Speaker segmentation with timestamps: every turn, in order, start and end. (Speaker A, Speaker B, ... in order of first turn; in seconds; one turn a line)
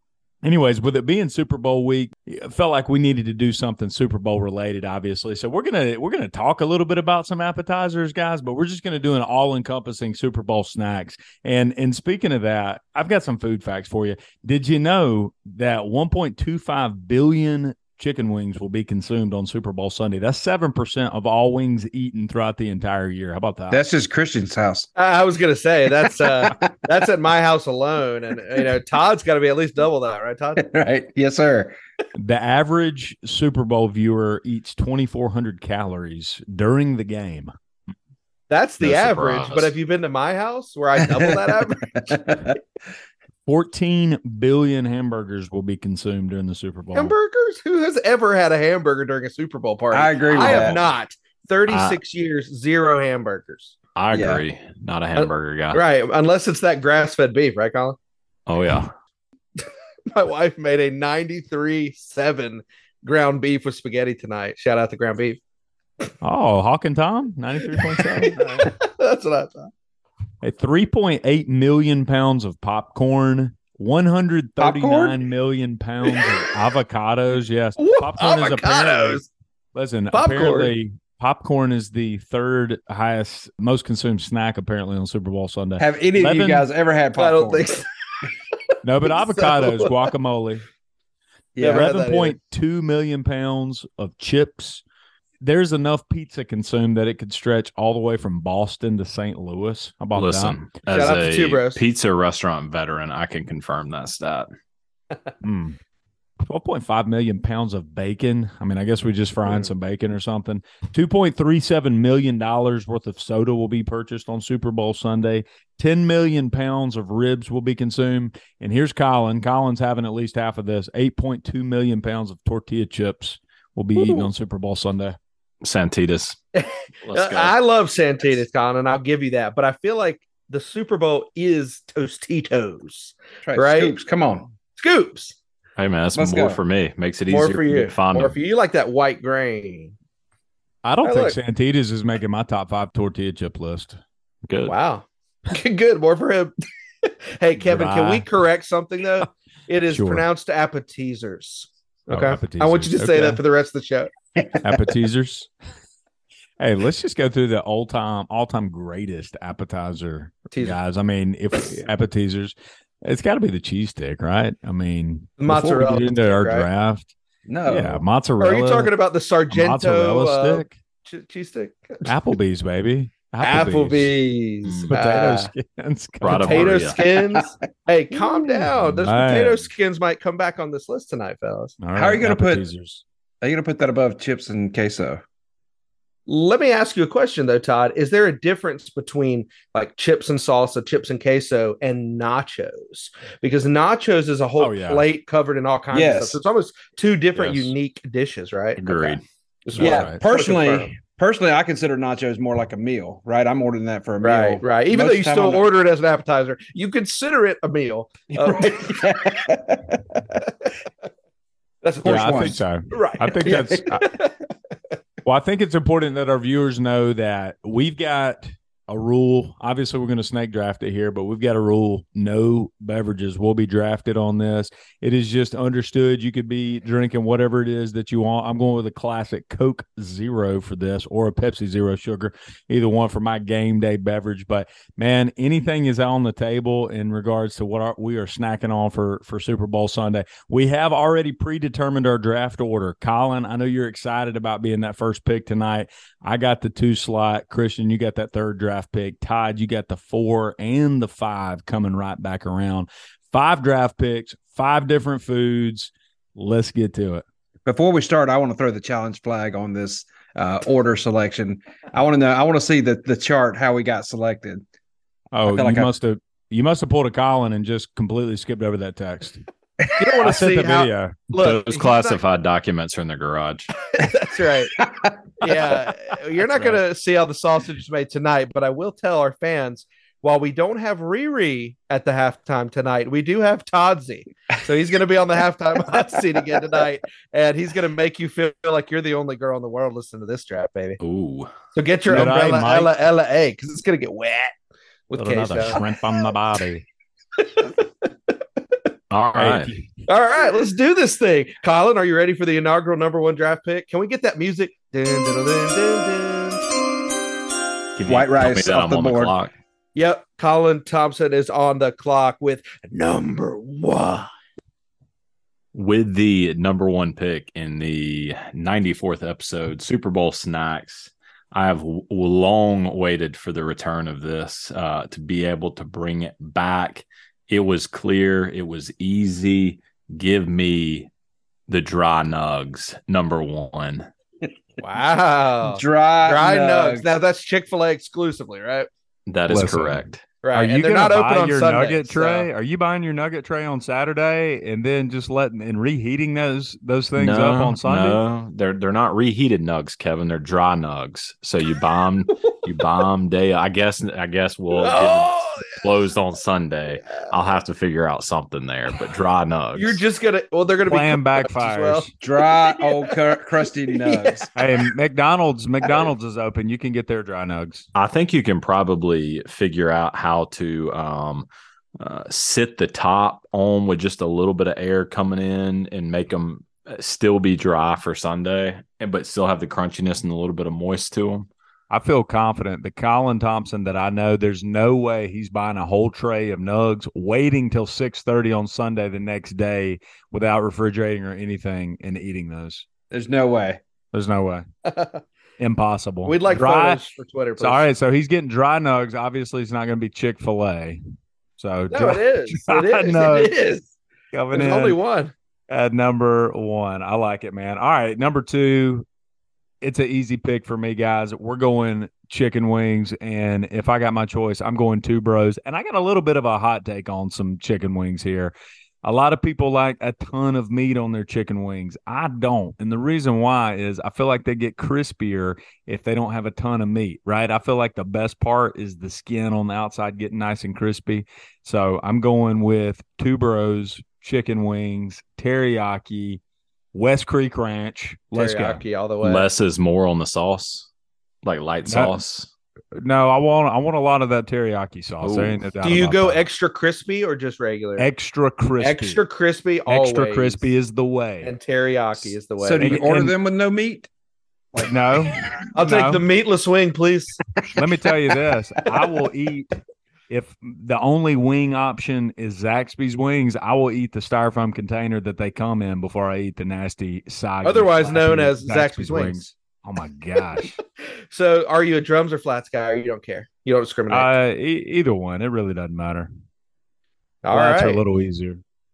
Speaker A: 0.4-23.8
Speaker B: 23.7-24.9
Speaker C: 25.0-30.6
Speaker B: 30.6-31.8
Speaker A: 32.2-37.5
Speaker C: 38.5-42.2
Speaker D: 38.8-39.7
Speaker B: 41.0-42.6
Speaker A: 43.5-47.1
Speaker C: 47.0-53.7
Speaker B: 49.9-50.8
Speaker D: 50.4-50.8
Speaker D: 51.7-52.0
Speaker D: 54.0-55.8
Speaker B: 54.1-54.4
Speaker C: 55.1-58.0
Speaker D: 58.5-58.9
Speaker C: 59.6-65.4
Speaker A: 66.2-68.7
Speaker C: 67.7-69.7
Speaker A: 70.4-79.2
Speaker B: 74.6-75.2
Speaker C: 77.8-79.3
Speaker A: 79.7-86.7
Speaker C: 80.1-80.7
Speaker B: 85.8-87.8
Speaker C: 87.2-87.9
Speaker A: 88.8-90.7
Speaker C: 89.1-89.9
Speaker B: 91.5-91.9
Speaker C: 91.6-92.4
Speaker A: 91.7-94.8
Speaker A: 95.4-100.6
Speaker D: 100.1-104.5
Speaker C: 100.9-101.8
Speaker A: 105.4-105.8
Speaker A: 106.4-125.2
Speaker C: 124.0-124.3
Speaker D: 125.6-126.4
Speaker C: 126.5-133.9
Speaker D: 127.0-127.5
Speaker B: 133.4-134.5
Speaker C: 134.8-135.4
Speaker D: 135.8-138.4
Speaker B: 136.2-136.6
Speaker C: 137.3-139.9
Speaker A: 140.8-144.0
Speaker C: 141.0-141.4
Speaker D: 144.4-144.8
Speaker C: 144.7-146.5
Speaker C: 147.0-154.1
Speaker A: 147.6-148.2
Speaker A: 149.9-150.3
Speaker A: 152.1-153.4
Speaker A: 154.6-155.5
Speaker A: 156.6-167.1
Speaker C: 160.5-160.8
Speaker C: 165.4-166.7
Speaker B: 167.5-168.0
Speaker A: 167.7-168.9
Speaker C: 168.4-172.1
Speaker A: 169.5-170.7
Speaker A: 172.1-174.1
Speaker C: 173.4-175.5
Speaker D: 174.6-174.9
Speaker A: 174.9-176.8
Speaker D: 176.2-177.2
Speaker C: 176.3-181.8
Speaker A: 178.9-179.7
Speaker A: 181.8-183.0
Speaker B: 181.9-182.7
Speaker B: 183.4-185.2
Speaker C: 186.3-200.9
Speaker A: 194.6-195.1
Speaker B: 195.9-196.4
Speaker D: 197.3-197.7
Speaker D: 198.8-199.2
Speaker A: 199.8-200.2
Speaker B: 199.8-205.6
Speaker C: 204.2-209.4
Speaker B: 208.3-210.2
Speaker C: 211.8-214.3
Speaker B: 212.0-212.6
Speaker A: 212.1-214.2
Speaker B: 213.4-213.8
Speaker A: 215.2-257.2
Speaker B: 257.7-264.6
Speaker A: 265.3-269.4
Speaker B: 265.5-265.9
Speaker C: 269.9-272.2
Speaker A: 270.2-271.3
Speaker D: 271.4-273.7
Speaker C: 274.0-274.7
Speaker B: 274.8-275.6
Speaker C: 275.4-291.0
Speaker D: 291.0-291.5
Speaker C: 291.7-294.5
Speaker A: 292.1-292.9
Speaker C: 295.1-295.8
Speaker A: 295.1-296.9
Speaker C: 297.4-297.9
Speaker D: 299.1-299.7
Speaker A: 299.4-299.9
Speaker C: 300.1-306.6
Speaker D: 308.0-309.5
Speaker B: 308.1-309.4
Speaker C: 309.9-314.3
Speaker D: 315.7-331.1
Speaker D: 331.7-334.1
Speaker C: 334.8-338.9
Speaker B: 335.6-337.1
Speaker D: 339.3-340.2
Speaker A: 339.5-340.0
Speaker C: 340.4-342.5
Speaker A: 340.5-348.2
Speaker D: 347.2-360.0
Speaker C: 354.8-355.7
Speaker C: 359.8-362.1
Speaker A: 360.9-362.1
Speaker B: 362.2-364.5
Speaker C: 362.6-363.2
Speaker C: 364.0-364.5
Speaker A: 364.6-367.9
Speaker D: 367.9-371.5
Speaker D: 372.0-381.5
Speaker A: 381.9-392.9
Speaker B: 393.1-393.8
Speaker A: 394.1-394.7
Speaker C: 394.9-395.2
Speaker A: 395.6-397.0
Speaker C: 396.3-397.9
Speaker A: 397.6-401.0
Speaker A: 401.6-403.5
Speaker C: 401.9-403.9
Speaker A: 404.3-405.0
Speaker C: 404.5-405.3
Speaker A: 405.7-409.1
Speaker A: 409.8-436.4
Speaker A: 436.9-438.8
Speaker C: 438.3-439.4
Speaker D: 439.2-440.9
Speaker D: 441.4-442.5
Speaker A: 441.9-442.1
Speaker A: 442.9-446.4
Speaker D: 445.2-445.6
Speaker C: 445.8-448.1
Speaker A: 448.0-449.2
Speaker C: 448.8-450.6
Speaker A: 449.9-451.5
Speaker C: 451.4-453.0
Speaker A: 452.2-453.3
Speaker B: 452.6-454.1
Speaker A: 454.7-456.2
Speaker C: 455.8-457.4
Speaker A: 457.7-459.8
Speaker A: 460.3-470.8
Speaker C: 467.6-469.4
Speaker C: 471.3-474.3
Speaker A: 474.1-476.3
Speaker C: 477.4-478.0
Speaker A: 477.5-478.6